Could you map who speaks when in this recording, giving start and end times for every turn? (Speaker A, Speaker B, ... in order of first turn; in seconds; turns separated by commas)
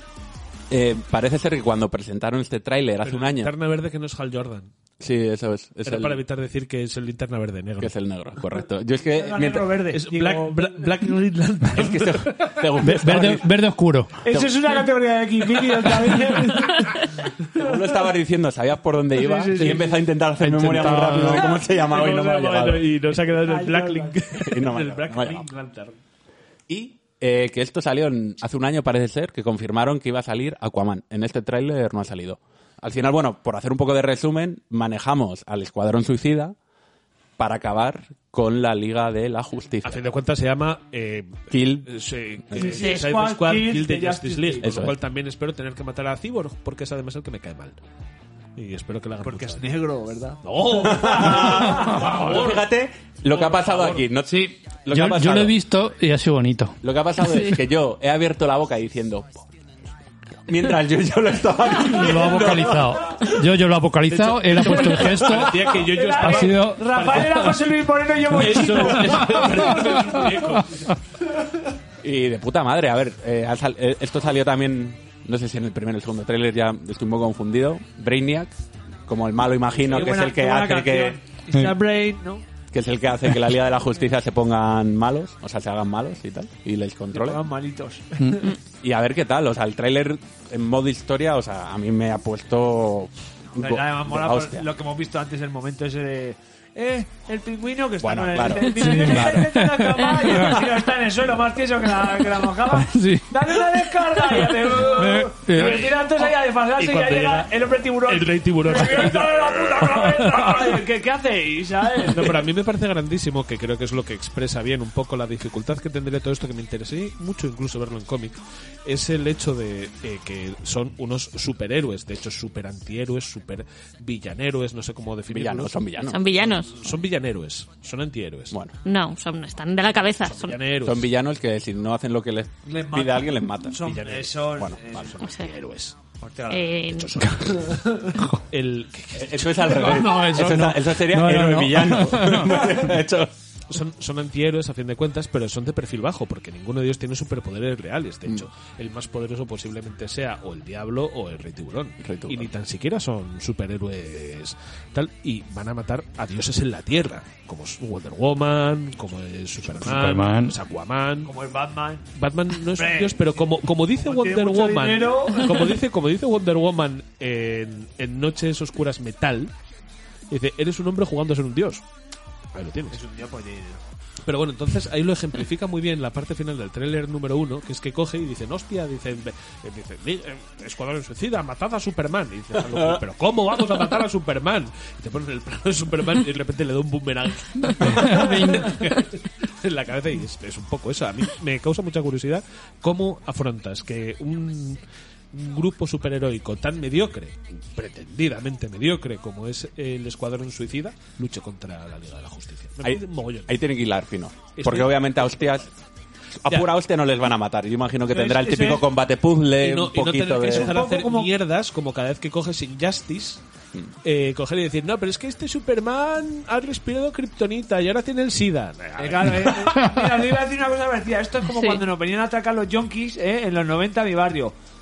Speaker A: 0.7-3.5, Speaker B: 3.0-4.7, Speaker A: 5.0-6.2, Speaker B: 5.9-7.9, Speaker A: 7.8-9.7, Speaker C: 9.1-10.9, Speaker B: 9.9-12.6, Speaker A: 11.7-13.5, Speaker D: 12.8-14.1, Speaker C: 14.2-17.0, Speaker A: 14.3-14.6, Speaker B: 16.3-16.7, Speaker A: 17.6-22.9, Speaker C: 19.2-20.0, Speaker D: 20.4-21.6, Speaker B: 21.5-25.9, Speaker C: 23.3-24.2, Speaker A: 24.4-25.5, Speaker A: 26.7-36.6, Speaker A: 37.4-40.1, Speaker B: 39.8-47.8, Speaker A: 41.5-41.9, Speaker A: 42.5-42.8, Speaker C: 42.5-44.7, Speaker A: 44.6-45.0, Speaker B: 48.6-49.7, Speaker C: 49.2-51.9, Speaker B: 50.4-52.7, Speaker A: 50.8-55.6, Speaker B: 53.3-54.1, Speaker D: 54.3-56.8, Speaker A: 56.8-59.5, Speaker A: 60.5-63.2, Speaker D: 61.8-67.3, Speaker B: 64.1-67.6, Speaker C: 65.5-69.7, Speaker B: 68.3-70.9, Speaker A: 72.0-78.6, Speaker A: 79.1-81.2, Speaker C: 79.9-82.4, Speaker A: 82.7-87.4, Speaker C: 87.1-88.5, Speaker D: 88.2-88.5, Speaker A: 88.8-94.7, Speaker C: 93.6-112.4, Speaker A: 98.0-99.5, Speaker D: 98.8-100.7, Speaker D: 102.7-103.7, Speaker D: 104.8-105.9, Speaker B: 105.5-110.4, Speaker B: 112.1-125.8, Speaker A: 125.3-126.2, Speaker E: 126.0-126.8, Speaker B: 126.4-128.6, Speaker A: 128.5-128.8, Speaker E: 128.8-130.6, Speaker B: 130.3-131.1, Speaker A: 130.8-133.8, Speaker C: 132.7-135.2, Speaker B: 133.8-134.4, Speaker A: 134.6-135.0, Speaker B: 134.9-136.0, Speaker E: 135.2-135.5, Speaker C: 136.2-138.2, Speaker E: 136.5-137.2, Speaker B: 137.0-137.8, Speaker B: 138.5-140.3, Speaker A: 139.2-143.3, Speaker D: 139.7-142.6, Speaker B: 143.7-161.3, Speaker A: 152.0-152.5, Speaker A: 159.7-159.9, Speaker D: 159.8-160.6, Speaker C: 161.2-162.1, Speaker B: 162.2-169.5, Speaker C: 162.7-165.6, Speaker B: 170.3-171.8, Speaker B: 172.5-173.0, Speaker C: 172.9-173.8, Speaker B: 174.3-194.8, Speaker A: 182.7-183.0, Speaker D: 187.7-188.8, Speaker B: 195.3-203.6, Speaker A: 202.8-205.7, Speaker B: 204.6-205.7, Speaker A: 206.4-210.8, Speaker B: 208.1-208.9, Speaker B: 209.6-213.4, Speaker C: 210.5-211.3, Speaker B: 214.0-219.8, Speaker C: 219.0-224.5